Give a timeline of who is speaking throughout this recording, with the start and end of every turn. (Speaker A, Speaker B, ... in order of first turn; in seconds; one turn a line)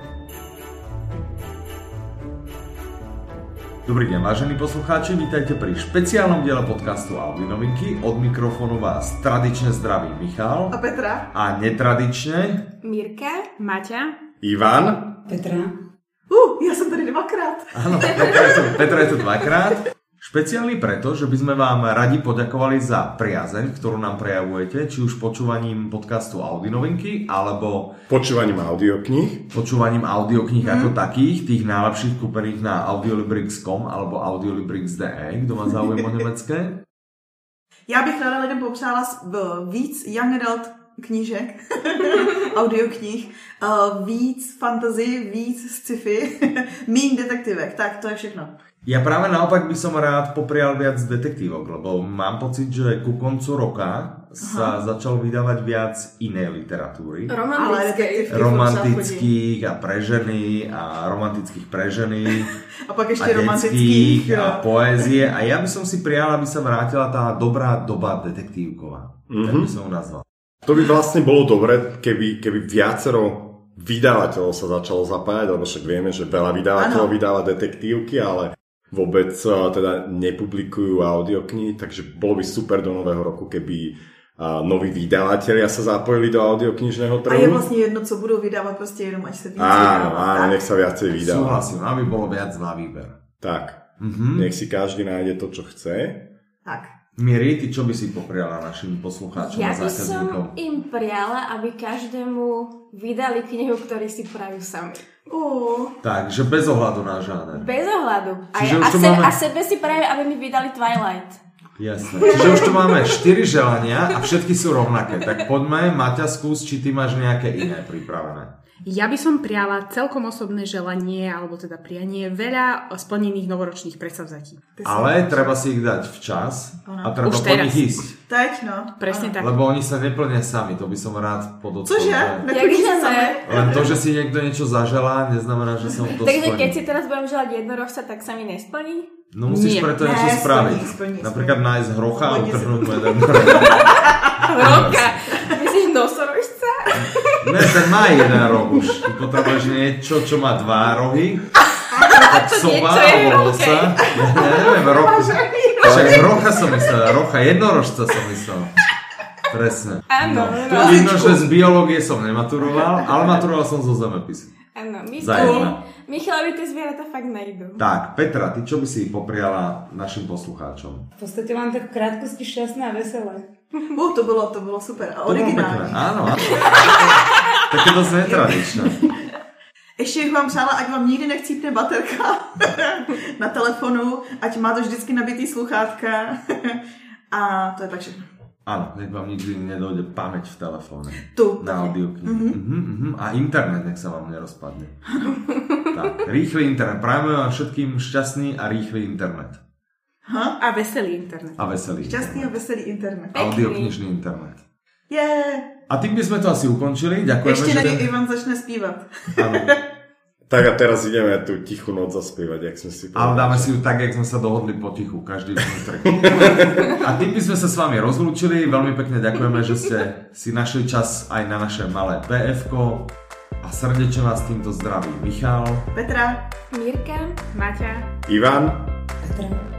Speaker A: 3.9-10.8
Speaker B: 10.7-11.3
Speaker A: 11.3-12.6
Speaker C: 12.8-13.5
Speaker D: 13.6-14.2
Speaker E: 14.4-15.1
Speaker D: 15.3-15.7
Speaker F: 15.3-15.7
Speaker B: 16.3-17.7
Speaker A: 17.7-27.9
Speaker E: 28.1-29.4
Speaker A: 29.5-36.8
Speaker B: 30.6-30.9
Speaker B: 37.9-48.5
Speaker A: 48.8-57.3
Speaker B: 54.4-54.8
Speaker C: 57.3-58.4
Speaker B: 57.5-59.3
Speaker A: 58.3-62.5
Speaker B: 62.9-65.1
Speaker A: 63.2-70.2
Speaker E: 69.3-69.7
Speaker E: 70.6-87.6
Speaker B: 76.8-77.1
Speaker B: 87.2-90.6
Speaker E: 89.6-91.6
Speaker A: 91.1-93.2
Speaker E: 93.4-93.8
Speaker A: 94.0-94.5
Speaker E: 94.3-96.2
Speaker A: 97.2-100.5
Speaker C: 99.4-105.0
Speaker B: 105.3-105.9
Speaker A: 106.0-107.7
Speaker C: 107.5-111.4
Speaker A: 108.5-109.3
Speaker A: 111.8-118.5
Speaker C: 112.2-113.0
Speaker D: 118.8-124.7
Speaker B: 124.8-125.5
Speaker A: 124.8-128.1
Speaker B: 126.8-127.2
Speaker D: 127.2-127.8
Speaker B: 128.3-129.3
Speaker D: 129.0-129.5
Speaker A: 129.4-132.4
Speaker B: 131.8-133.9
Speaker C: 132.5-133.4
Speaker A: 133.4-136.8
Speaker C: 136.1-139.1
Speaker A: 139.3-144.0
Speaker D: 139.5-139.9
Speaker B: 140.0-143.8
Speaker C: 143.4-148.4
Speaker A: 144.5-145.4
Speaker A: 147.4-151.5
Speaker C: 151.9-157.0
Speaker A: 152.1-158.7
Speaker E: 155.8-156.3
Speaker A: 159.5-164.5
Speaker C: 160.1-161.4
Speaker B: 160.9-161.2
Speaker C: 164.7-167.8
Speaker A: 165.2-165.8
Speaker A: 167.8-171.1
Speaker F: 171.2-173.5
Speaker B: 173.9-176.7
Speaker A: 175.2-177.1
Speaker A: 177.7-179.0
Speaker B: 178.2-179.1
Speaker B: 180.0-188.2
Speaker A: 188.7-194.9
Speaker B: 191.3-192.6
Speaker B: 195.1-195.4
Speaker A: 195.9-199.6
Speaker B: 200.3-200.6
Speaker D: 200.6-201.6
Speaker A: 201.6-202.6
Speaker B: 202.0-203.4
Speaker C: 203.3-203.9
Speaker A: 203.3-204.6
Speaker B: 205.1-205.7
Speaker A: 205.9-208.1
Speaker B: 207.4-209.8
Speaker A: 209.3-209.7
Speaker E: 210.5-213.7
Speaker A: 213.1-223.1
Speaker E: 216.2-216.5
Speaker A: 223.6-225.9
Speaker B: 225.9-226.4
Speaker C: 226.7-227.4
Speaker D: 227.5-228.1
Speaker E: 228.3-228.8
Speaker F: 229.2-229.6